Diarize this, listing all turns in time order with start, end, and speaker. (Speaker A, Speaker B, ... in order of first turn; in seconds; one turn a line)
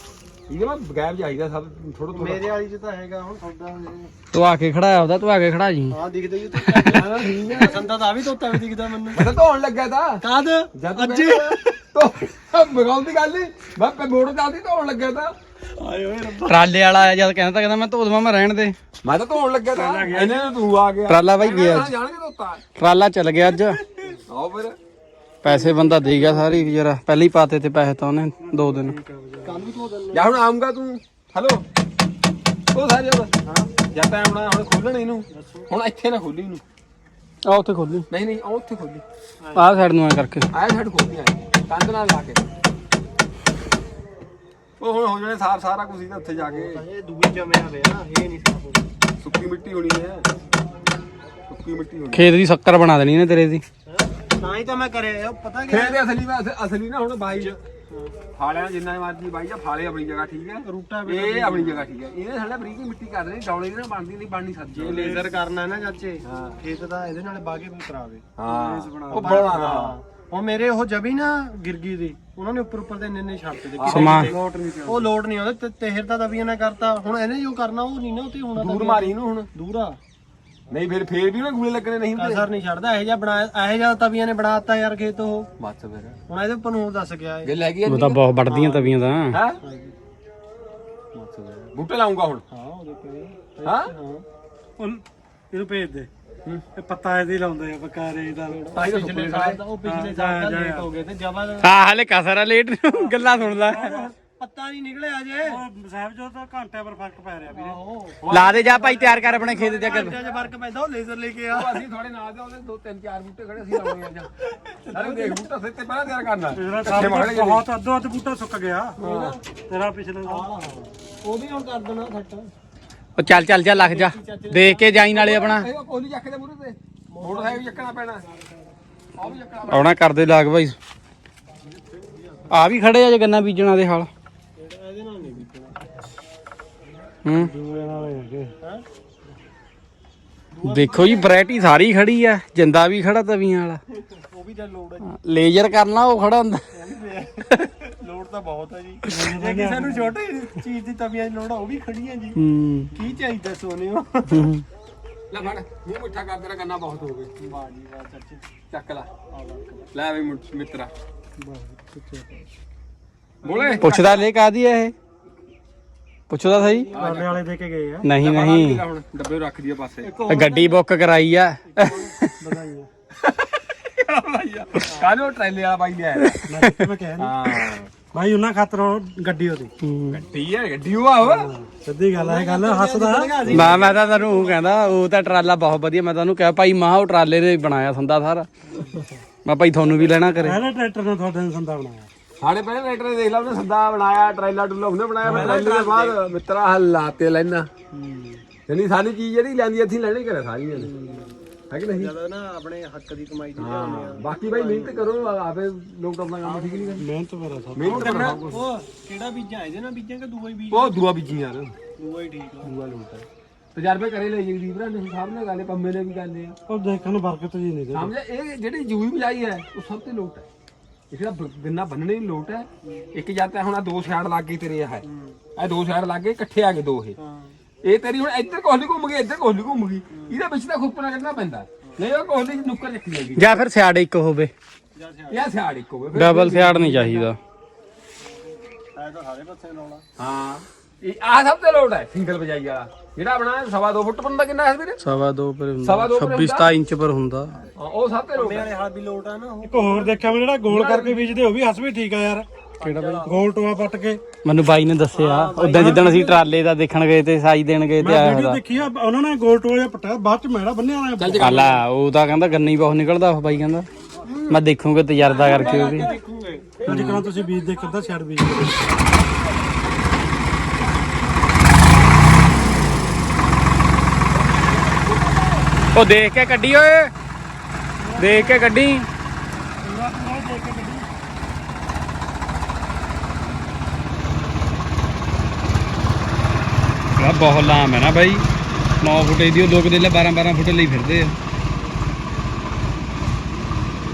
Speaker A: 0.5-2.6
Speaker B: 2.1-4.1
Speaker C: 4.3-6.0
Speaker B: 5.9-9.3
Speaker A: 6.9-7.9
Speaker A: 9.1-10.2
Speaker B: 10.2-11.7
Speaker A: 10.8-15.3
Speaker B: 15.8-16.5
Speaker C: 16.4-18.8
Speaker A: 19.0-22.6
Speaker D: 19.7-20.5
Speaker C: 21.1-21.9
Speaker C: 22.8-23.8
Speaker A: 24.3-24.8
Speaker C: 25.4-29.0
Speaker B: 25.4-26.7
Speaker D: 28.4-29.6
Speaker B: 29.4-30.3
Speaker A: 30.1-31.6
Speaker A: 32.7-33.3
Speaker B: 33.5-33.7
Speaker A: 33.9-36.6
Speaker B: 35.3-35.7
Speaker C: 37.5-38.1
Speaker A: 38.1-39.0
Speaker B: 39.4-39.7
Speaker C: 39.5-40.5
Speaker A: 40.5-42.4
Speaker A: 44.8-46.8
Speaker B: 46.4-48.9
Speaker A: 49.2-50.3
Speaker A: 51.5-52.3
Speaker C: 52.1-53.6
Speaker B: 53.9-56.0
Speaker A: 55.7-57.6
Speaker B: 57.3-58.1
Speaker A: 58.4-65.3
Speaker B: 60.6-61.9
Speaker B: 64.8-80.0
Speaker A: 66.3-66.6
Speaker A: 68.4-70.0
Speaker A: 73.8-74.5
Speaker C: 73.9-74.3
Speaker A: 78.6-79.5
Speaker A: 80.7-82.5
Speaker B: 82.2-85.5
Speaker A: 85.6-86.2
Speaker B: 86.3-87.5
Speaker A: 87.4-88.2
Speaker C: 87.9-89.4
Speaker B: 88.5-88.9
Speaker A: 89.3-89.6
Speaker B: 89.6-90.0
Speaker A: 91.1-92.4
Speaker B: 92.5-94.2
Speaker A: 93.6-93.9
Speaker D: 94.8-96.1
Speaker D: 96.8-98.6
Speaker B: 98.5-101.7
Speaker A: 98.7-99.7
Speaker D: 99.8-100.8
Speaker C: 101.6-104.0
Speaker B: 102.9-105.6
Speaker D: 103.7-104.1
Speaker D: 105.4-107.8
Speaker B: 107.5-111.8
Speaker A: 108.2-108.6
Speaker C: 108.3-110.2
Speaker A: 111.5-114.3
Speaker B: 114.6-115.4
Speaker A: 114.9-117.7
Speaker D: 116.5-119.0
Speaker A: 119.0-119.3
Speaker B: 119.0-119.4
Speaker D: 119.7-120.5
Speaker B: 120.3-122.5
Speaker C: 123.2-125.7
Speaker B: 123.3-125.1
Speaker A: 125.1-128.2
Speaker B: 127.1-128.7
Speaker A: 129.2-129.9
Speaker C: 129.7-130.8
Speaker B: 131.7-132.4
Speaker C: 132.5-134.1
Speaker B: 134.6-135.8
Speaker C: 137.2-137.5
Speaker D: 137.3-138.5
Speaker B: 140.5-141.4
Speaker C: 140.7-143.8
Speaker B: 144.3-145.1
Speaker C: 145.0-146.7
Speaker B: 146.7-152.4
Speaker D: 149.1-150.1
Speaker C: 152.4-152.9
Speaker B: 152.9-154.5
Speaker C: 154.3-154.6
Speaker A: 155.3-157.3
Speaker B: 157.4-158.4
Speaker A: 158.7-159.1
Speaker B: 159.3-159.9
Speaker A: 159.9-160.9
Speaker D: 161.4-162.4
Speaker B: 163.4-164.3
Speaker A: 163.4-163.9
Speaker C: 163.8-164.9
Speaker C: 166.3-166.9
Speaker B: 166.5-167.1
Speaker A: 166.9-167.4
Speaker D: 167.0-168.1
Speaker C: 168.0-168.8
Speaker A: 168.2-170.2
Speaker D: 170.0-170.8
Speaker C: 170.3-172.3
Speaker D: 171.7-172.9
Speaker A: 173.2-176.4
Speaker B: 174.9-175.1
Speaker D: 176.5-177.3
Speaker A: 177.2-177.9
Speaker D: 178.1-179.7
Speaker C: 179.8-180.2
Speaker A: 180.1-181.5
Speaker D: 181.2-183.6
Speaker B: 182.1-185.0
Speaker C: 183.5-188.5
Speaker C: 189.4-190.6
Speaker D: 190.4-192.1
Speaker A: 192.4-197.7
Speaker B: 195.2-196.2
Speaker D: 197.9-198.4
Speaker A: 198.7-200.9
Speaker B: 200.7-201.4
Speaker A: 201.7-202.1
Speaker B: 201.9-205.3
Speaker A: 203.6-207.1
Speaker B: 206.4-207.1
Speaker D: 207.0-208.5
Speaker A: 207.7-208.6
Speaker B: 207.8-211.0
Speaker A: 210.7-211.8
Speaker B: 212.0-212.7
Speaker A: 212.6-216.6
Speaker D: 216.7-218.1
Speaker A: 217.9-220.5
Speaker A: 221.1-225.1
Speaker B: 225.0-225.4
Speaker A: 225.6-227.2
Speaker B: 227.2-227.6
Speaker A: 227.8-233.6
Speaker B: 230.1-230.4
Speaker C: 233.4-234.5
Speaker B: 234.9-235.4
Speaker A: 235.3-237.2
Speaker C: 236.1-237.4
Speaker B: 238.9-240.0
Speaker A: 240.2-245.0
Speaker C: 245.0-247.6
Speaker A: 245.8-246.8
Speaker A: 247.8-248.7
Speaker B: 248.3-250.3
Speaker D: 249.6-252.5
Speaker A: 250.7-251.3
Speaker C: 252.8-253.3
Speaker B: 252.8-253.4
Speaker D: 253.2-254.2
Speaker C: 254.4-258.6
Speaker B: 255.1-256.4
Speaker D: 255.7-256.3
Speaker D: 258.0-261.6
Speaker A: 261.2-261.8
Speaker C: 261.4-263.9
Speaker B: 264.2-264.6
Speaker C: 264.5-266.1
Speaker B: 265.2-266.9
Speaker C: 266.9-267.2
Speaker D: 266.9-268.8
Speaker C: 275.9-277.1
Speaker D: 278.0-278.6
Speaker C: 278.2-279.1
Speaker D: 279.8-281.1
Speaker C: 287.2-288.4
Speaker C: 289.0-291.3